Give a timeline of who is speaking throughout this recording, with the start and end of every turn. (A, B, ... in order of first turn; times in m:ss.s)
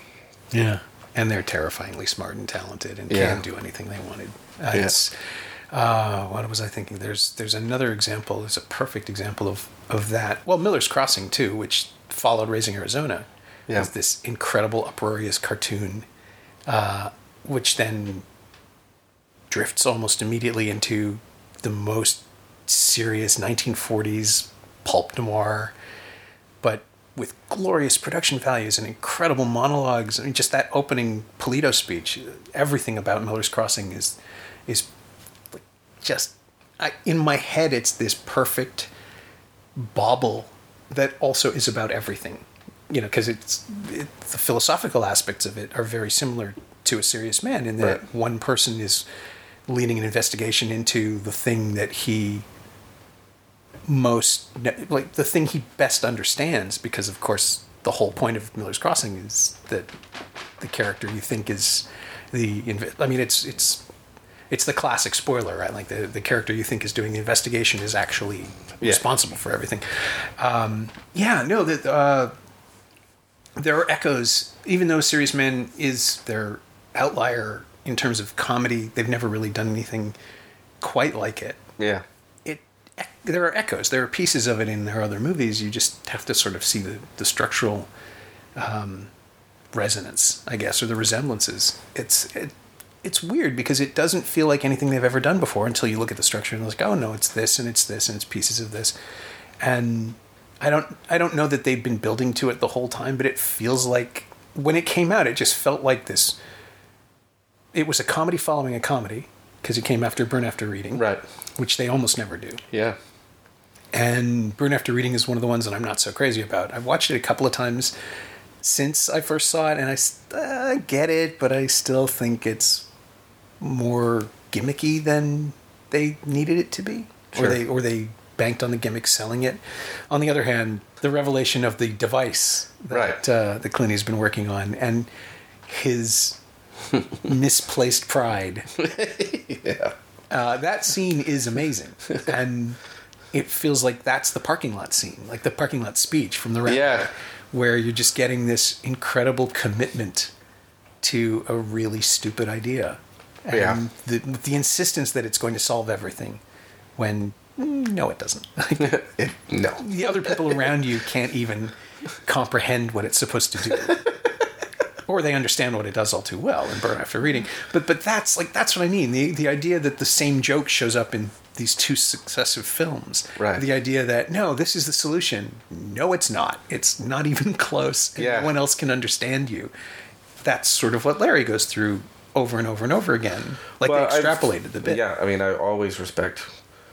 0:00.5-0:05.1 A
0:03.1-0:03.4 B
0:05.7-0:16.1 A
0:16.7-0:18.2 A
0:19.5-0:25.7 A
0:26.6-0:34.9 A
0:35.6-0:38.9 A
0:39.8-0:49.0 A
0:49.7-0:52.4 A
0:53.9-0:59.9 A
1:00.6-1:03.8 A
1:04.5-1:12.3 A
1:13.6-1:20.2 A
1:20.8-1:21.6 A
1:21.8-1:22.0 B
1:22.5-1:27.9 A
1:28.6-1:29.1 A
1:29.8-1:38.9 A
1:39.6-1:46.4 A
1:47.7-1:51.1 A
1:51.0-1:51.2 B
1:51.6-1:52.6 A
1:52.7-1:53.0 B
1:53.9-1:57.9 A
1:58.6-2:02.9 A
2:03.6-2:09.6 A
2:10.1-2:15.1 A
2:12.9-2:13.2 B
2:15.7-2:16.4 A
2:17.2-2:18.7 A
2:18.8-2:19.9 B
2:20.3-2:22.8 A
2:23.3-2:30.3 A
2:26.7-2:27.1 B
2:31.0-2:36.4 A
2:33.5-2:33.8 B
2:37.0-2:39.0 A
2:38.8-2:40.6 B
2:39.8-2:44.1 A
2:45.1-2:59.7 A
2:53.4-2:53.6 B
2:58.2-2:58.5 B
3:00.4-3:05.0 A
3:03.8-3:06.5 B